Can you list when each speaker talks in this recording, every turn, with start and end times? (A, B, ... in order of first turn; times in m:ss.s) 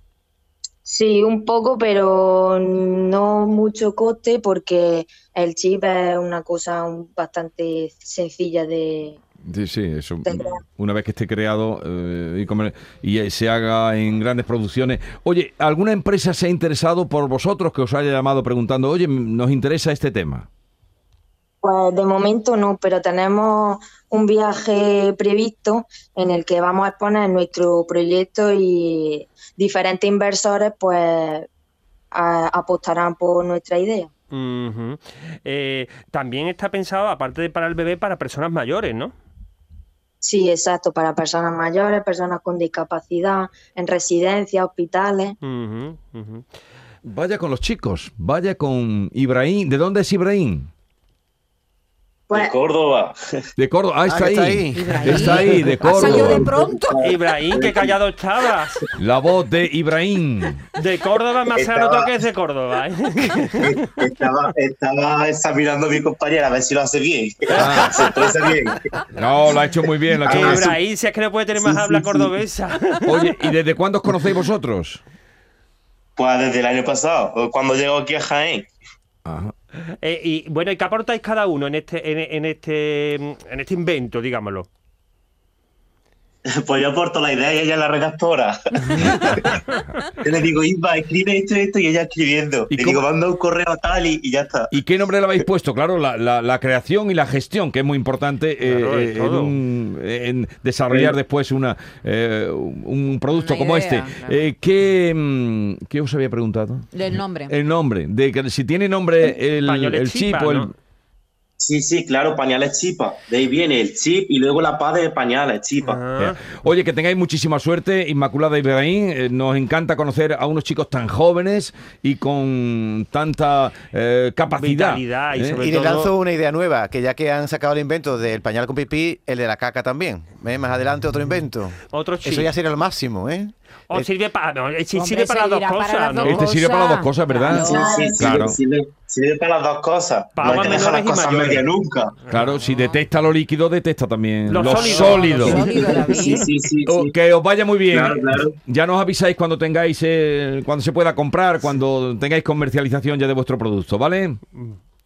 0:00.8-0:09.2 A
0:09.5-0:20.5 B
0:10.2-0:10.6 A
0:21.6-0:31.5 A
0:32.1-0:34.1 A
0:34.3-0:39.1 C
0:40.2-0:45.4 A
0:45.4-0:46.4 C
0:47.0-0:50.7 B
0:52.3-0:53.4 D
0:53.6-0:56.5 B
0:54.1-0:55.8 E
0:54.7-0:56.9 F
0:56.0-0:58.0 D
0:57.0-0:58.8 C
0:59.0-1:00.6 B
1:00.8-1:03.8 C
1:01.5-1:02.1 D
1:03.6-1:09.0 D
1:07.6-1:08.0 B
1:07.6-1:08.2 C
1:09.2-1:10.7 B
1:10.2-1:10.7 D
1:10.3-1:13.5 C
1:11.6-1:12.4 D
1:13.1-1:15.0 B
1:16.2-1:18.7 D
1:19.3-1:19.5 B
1:20.0-1:24.7 C
1:26.5-1:29.6 D
1:29.0-1:29.6 C
1:30.2-1:34.7 D
1:32.7-1:33.0 B
1:34.7-1:46.9 B
1:38.6-1:39.6 C
1:40.9-1:41.2 D
1:43.3-1:44.5 F
1:46.9-1:47.5 F
1:47.5-1:50.7 B
1:49.6-1:50.7 C
1:51.6-1:56.0 D
1:55.8-1:56.6 C
1:56.2-2:05.6 B
2:04.5-2:06.1 C
2:05.6-2:14.1 E
2:11.9-2:12.5 C
2:13.9-2:16.4 C
2:14.9-2:18.3 F
2:16.2-2:18.6 B
2:17.5-2:22.2 D
2:20.3-2:21.7 C
2:22.2-2:22.6 C
2:22.3-2:25.7 B
2:22.5-2:23.0 F
2:24.5-2:26.5 C
2:24.6-2:26.5 F
2:25.4-2:27.2 D
2:26.9-2:34.4 B
2:27.9-2:28.6 D